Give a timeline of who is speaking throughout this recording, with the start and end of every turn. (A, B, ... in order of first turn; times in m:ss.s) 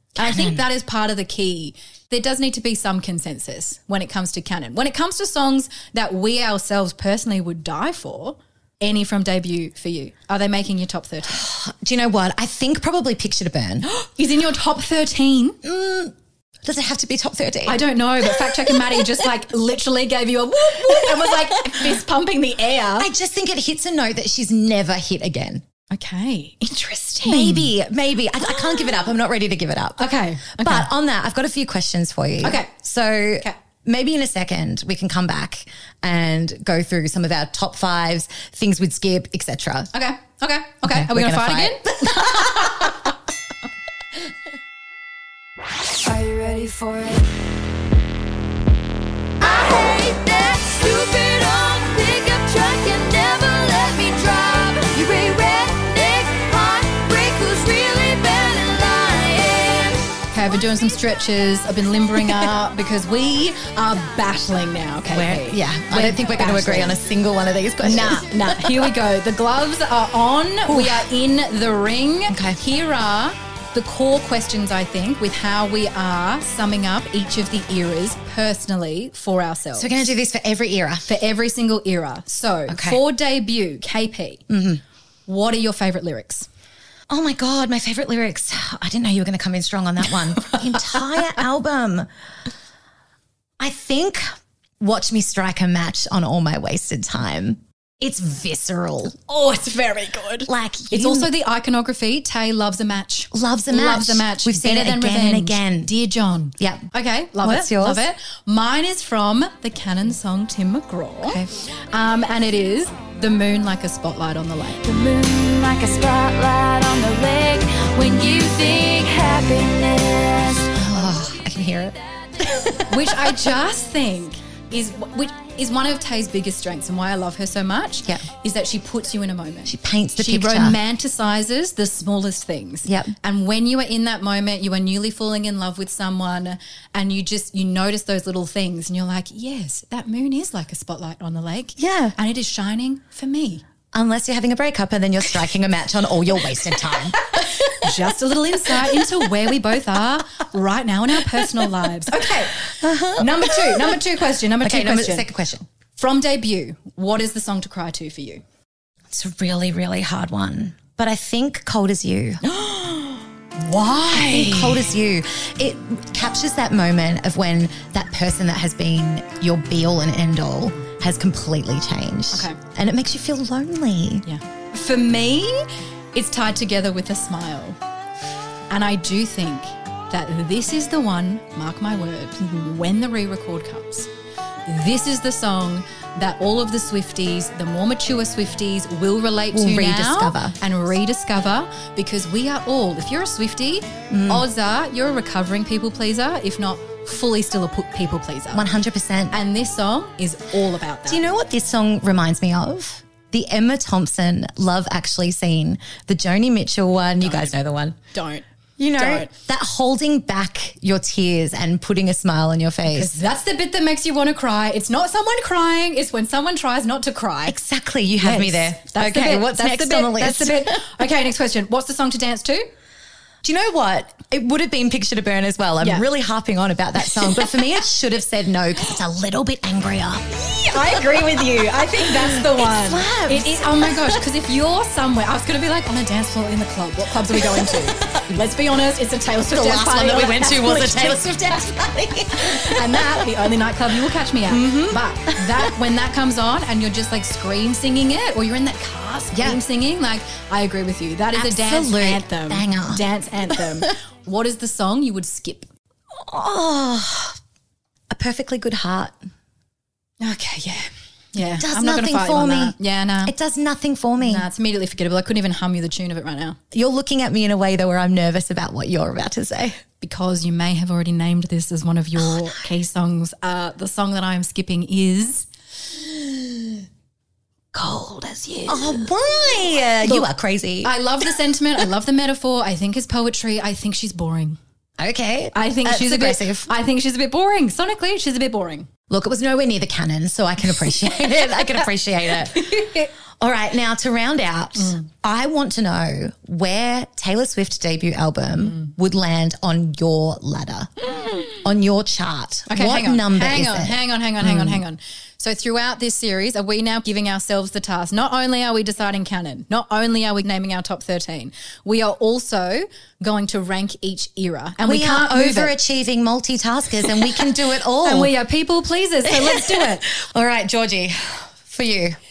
0:00.2-0:11.4 A
0:00.2-0:00.6 B
0:11.3-0:13.8 B
0:13.8-0:15.6 A
0:15.6-0:19.0 B
0:17.6-0:23.1 A
0:20.9-0:21.3 B
0:23.0-0:25.6 B
0:25.9-0:27.7 A
0:27.2-0:39.9 B
0:30.0-0:30.9 A
0:32.4-0:32.7 A
0:39.9-0:43.0 A
0:40.8-0:42.9 B
0:46.0-0:47.2 C
0:49.4-1:00.1 C
1:00.3-1:07.0 A
1:05.1-1:08.9 B
1:07.8-1:20.1 A
1:10.6-1:11.0 B
1:12.3-1:12.6 B
1:19.8-1:21.1 B
1:21.1-1:24.4 A
1:22.7-1:23.0 B
1:24.5-1:24.8 B
1:25.3-1:26.5 A
1:27.1-1:32.1 B
1:33.6-1:34.2 B
1:34.8-1:39.1 B
1:39.2-1:54.8 A
1:40.5-1:41.3 B
1:43.3-1:45.9 B
1:46.6-1:46.9 B
1:47.4-1:48.0 B
1:54.8-2:00.8 C
2:00.7-2:03.4 B
2:02.9-2:23.6 A
2:09.6-2:10.8 B
2:12.8-2:13.1 B
2:21.8-2:22.2 B
2:23.9-2:27.7 B
2:27.4-2:35.3 A
2:32.6-2:34.0 B
2:34.6-2:35.6 B
2:36.0-2:38.4 A
2:39.1-2:42.4 B
2:42.4-2:44.9 A
2:44.1-2:54.2 B
2:52.3-2:52.6 A
2:54.2-2:57.8 A
2:58.7-3:04.1 A
3:04.6-3:18.6 A
3:09.5-3:10.6 B
3:14.1-3:14.4 B
3:18.5-3:19.4 B
3:19.3-3:21.3 A
3:21.1-3:28.0 B
3:27.2-3:27.5 A
3:28.1-3:28.4 A
3:28.8-3:33.1 B
3:29.0-3:29.3 A
3:32.9-3:37.6 A
3:37.5-3:40.8 B
3:38.2-3:42.7 A
3:43.4-3:51.2 B
3:50.4-4:01.4 A
3:52.0-3:54.2 B
3:57.3-3:57.6 B
3:59.5-4:03.3 B
4:02.3-4:15.7 A
4:04.5-4:05.7 B
4:09.3-4:09.6 B
4:11.3-4:13.9 B
4:16.1-4:17.4 B
4:18.1-4:19.2 B
4:20.2-4:23.3 A
4:21.4-4:24.5 B
4:24.2-4:26.6 A
4:26.7-4:29.8 B
4:30.0-4:36.8 A
4:32.2-4:32.6 B
4:37.7-4:39.1 A
4:38.7-4:40.9 B
4:40.0-4:40.3 A
4:40.8-4:44.6 A
4:45.0-4:46.7 B
4:45.5-4:48.9 A
4:49.1-5:00.9 B
4:52.5-4:53.1 A
4:54.8-4:55.0 A
5:01.0-5:01.6 A
5:01.6-5:04.8 B
5:02.7-5:15.7 A
5:14.8-5:18.3 B
5:18.0-5:20.1 A
5:19.3-5:22.2 B